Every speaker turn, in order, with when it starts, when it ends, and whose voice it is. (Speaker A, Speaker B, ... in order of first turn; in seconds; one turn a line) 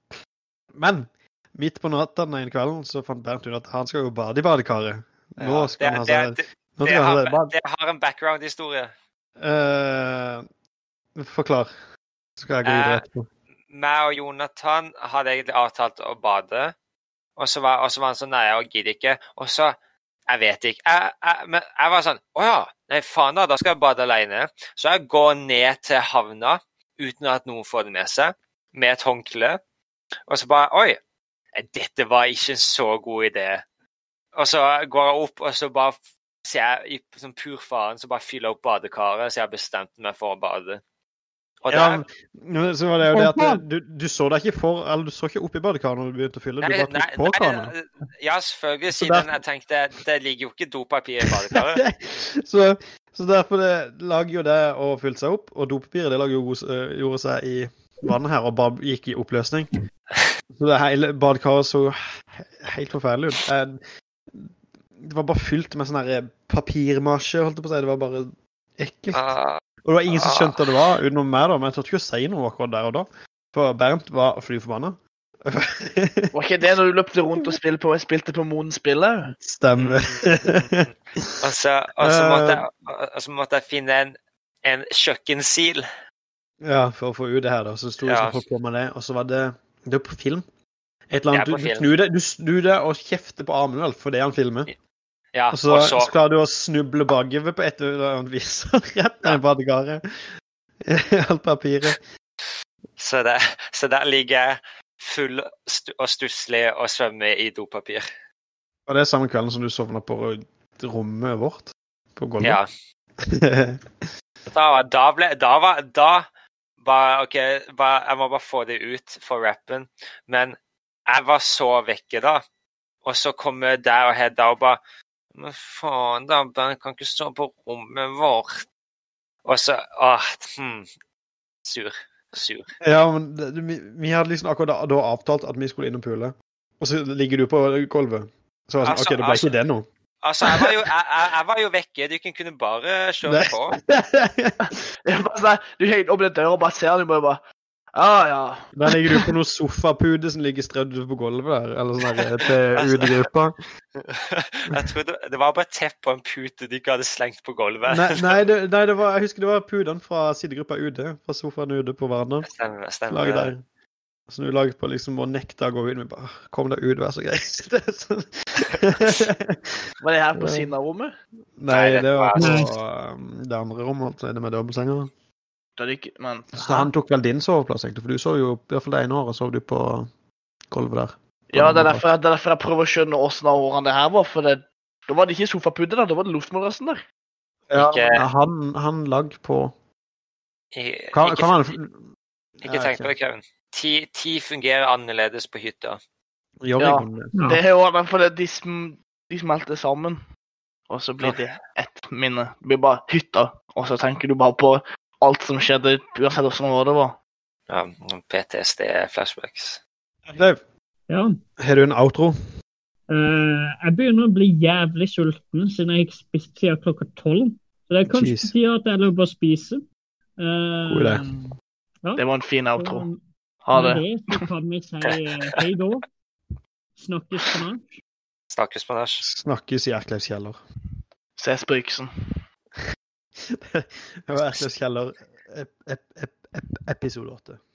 Speaker A: 0.7-7.5
Speaker B: 5.4-8.9
Speaker A: 9.4-10.4
Speaker A: 11.2-11.7
Speaker A: 12.4-13.3
Speaker B: 12.6-13.0
Speaker B: 13.7-16.7
Speaker B: 17.4-19.8
Speaker B: 20.3-29.6
Speaker B: 30.3-31.0
Speaker B: 31.5-33.6
Speaker B: 34.3-40.8
Speaker B: 41.6-42.0
Speaker A: 41.7-47.7
Speaker C: 43.0-43.6
Speaker B: 46.6-51.8
Speaker A: 49.0-49.3
Speaker A: 51.5-59.7
Speaker A: 60.5-69.3
Speaker B: 69.1-70.7
Speaker A: 69.8-76.3
Speaker D: 76.3-79.3
Speaker A: 79.3-81.4
Speaker B: 79.8-85.8
Speaker A: 82.0-82.6
Speaker A: 86.6-90.4
Speaker B: 88.0-88.4
Speaker A: 91.1-94.7
Speaker B: 91.3-91.9
Speaker B: 95.3-96.1
Speaker A: 95.5-100.0
Speaker A: 100.8-102.0
Speaker B: 103.0-108.0
Speaker A: 108.9-112.6
Speaker B: 112.4-112.7
Speaker A: 113.2-114.0
Speaker B: 114.5-116.2
Speaker B: 116.8-120.5
Speaker B: 121.1-122.4
Speaker B: 123.0-124.8
Speaker B: 125.3-128.6
Speaker B: 129.4-130.9
Speaker B: 131.6-132.7
Speaker A: 132.8-139.9
Speaker B: 138.8-139.5
Speaker B: 140.2-143.8
Speaker A: 140.4-140.7
Speaker A: 143.2-144.9
Speaker D: 145.0-147.4
Speaker D: 147.9-149.3
Speaker A: 148.7-153.6
Speaker B: 152.8-153.1
Speaker B: 154.0-158.3
Speaker A: 157.9-162.5
Speaker B: 162.4-163.5
Speaker A: 163.1-163.6
Speaker A: 164.3-169.7
Speaker D: 170.0-171.1
Speaker A: 170.3-170.7
Speaker A: 171.6-175.1
Speaker B: 171.7-172.6
Speaker C: 172.3-172.7
Speaker D: 175.8-176.9
Speaker A: 176.5-180.1
Speaker A: 180.7-182.1
Speaker D: 181.5-187.0
Speaker A: 187.7-189.7
Speaker B: 187.7-188.2
Speaker B: 190.7-191.7
Speaker A: 191.1-192.0
Speaker A: 192.6-193.1
Speaker B: 192.6-196.0
Speaker A: 196.6-197.3
Speaker D: 196.8-200.2
Speaker C: 197.3-197.6
Speaker D: 200.9-207.2
Speaker B: 207.7-209.8
Speaker A: 210.3-210.6
Speaker C: 211.1-211.3
Speaker A: 211.6-212.3
Speaker C: 213.1-219.8
Speaker A: 218.1-218.5
Speaker C: 220.4-221.5
Speaker A: 220.8-221.4
Speaker D: 222.2-223.1
Speaker C: 222.7-226.0
Speaker D: 223.6-224.0
Speaker C: 226.9-228.0
Speaker B: 228.5-229.2
Speaker A: 229.2-230.6
Speaker D: 231.4-232.4
Speaker A: 233.5-237.6